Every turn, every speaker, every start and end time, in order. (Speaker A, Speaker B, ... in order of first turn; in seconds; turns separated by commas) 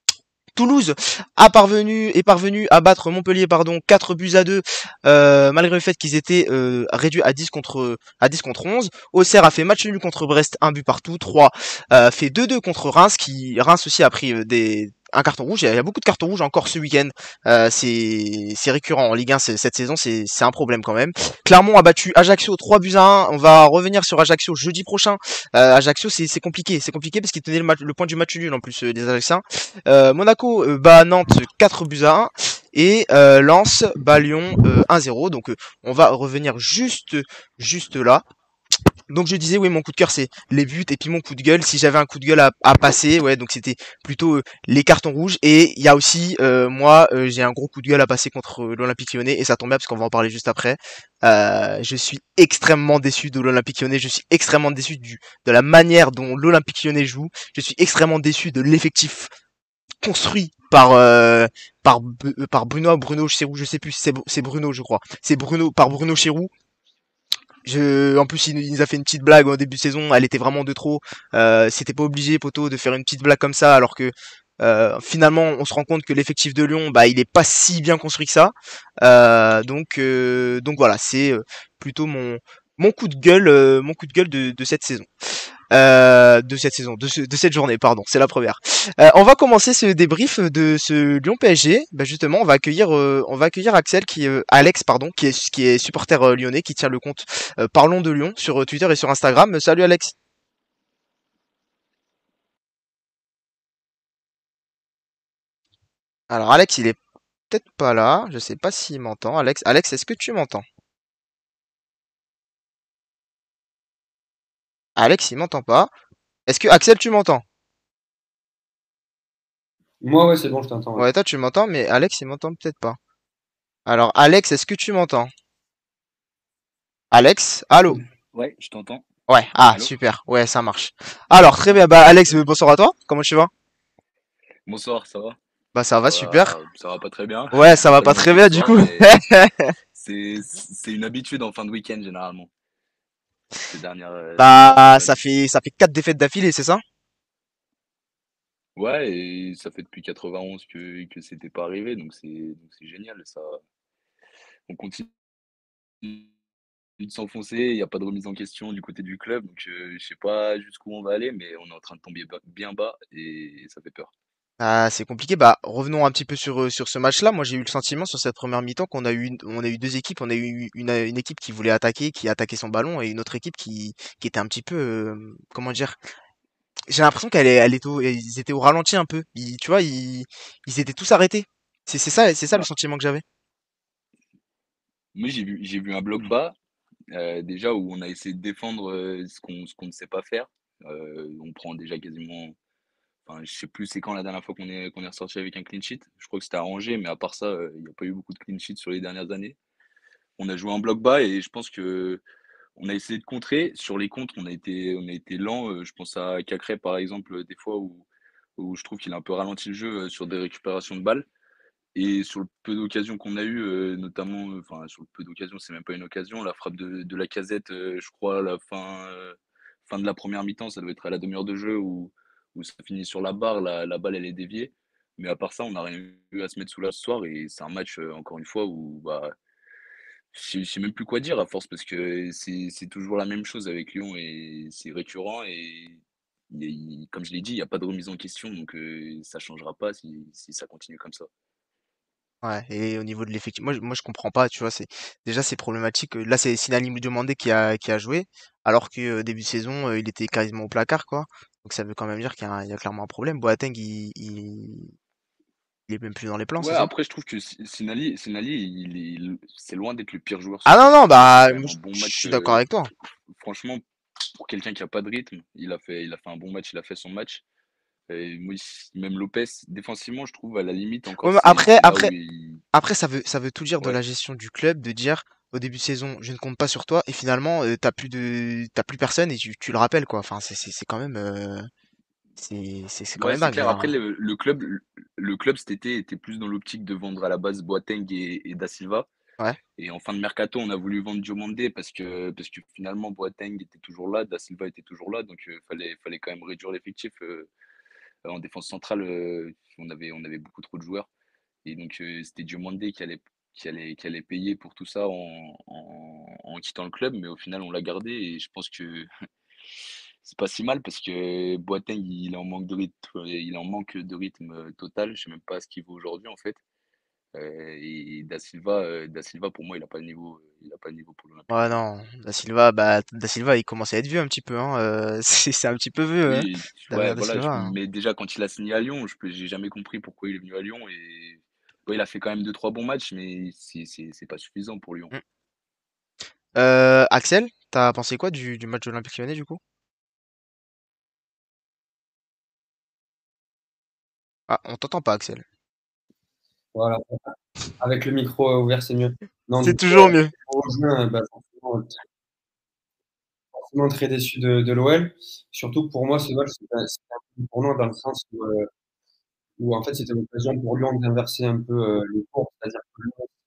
Speaker A: 0.6-38.2, Speaker A: 39.1-59.3, Speaker A: 60.0-66.5, Speaker A: 67.6-100.1, Speaker A: 106.3-107.0, Speaker A: 107.5-110.6, Speaker A: 115.0-115.9, Speaker A: 116.5-117.4, Speaker B: 120.0-121.1, Speaker A: 121.0-123.0, Speaker A: 123.8-125.3, Speaker A: 127.1-128.0, Speaker C: 128.3-129.1, Speaker A: 129.3-133.5, Speaker C: 131.7-132.4, Speaker C: 134.7-135.4, Speaker A: 135.7-136.5, Speaker C: 136.1-139.2, Speaker A: 137.5-139.7, Speaker C: 139.9-142.5, Speaker C: 143.7-145.3, Speaker A: 144.4-146.8, Speaker C: 148.8-153.6, Speaker C: 154.7-155.1, Speaker C: 156.0-156.3, Speaker C: 157.0-164.1, Speaker A: 164.6-176.0, Speaker A: 176.9-183.2, Speaker C: 185.1-186.6, Speaker C: 187.1-192.6, Speaker C: 193.2-199.6, Speaker C: 200.4-202.2, Speaker C: 202.8-208.1, Speaker C: 208.6-211.3, Speaker C: 211.9-229.3, Speaker C: 230.3-241.3, Speaker A: 242.4-254.9, Speaker A: 255.9-256.9, Speaker C: 256.6-262.6, Speaker A: 260.6-262.9, Speaker C: 263.4-263.8, Speaker C: 264.3-267.4, Speaker C: 268.1-272.6, Speaker A: 271.2-272.1, Speaker A: 272.7-281.7, Speaker A: 282.4-283.9, Speaker C: 283.2-289.1, Speaker C: 289.8-297.5, Speaker C: 298.2-301.1, Speaker C: 301.6-309.1, Speaker C: 310.2-316.6, Speaker C: 317.3-321.5, Speaker A: 321.5-327.7, Speaker C: 326.3-335.1, Speaker A: 336.6-339.6, Speaker A: 344.5-345.4, Speaker B: 346.7-347.2, Speaker B: 347.8-351.9, Speaker A: 349.6-350.3, Speaker B: 353.5-358.7, Speaker B: 359.6-363.3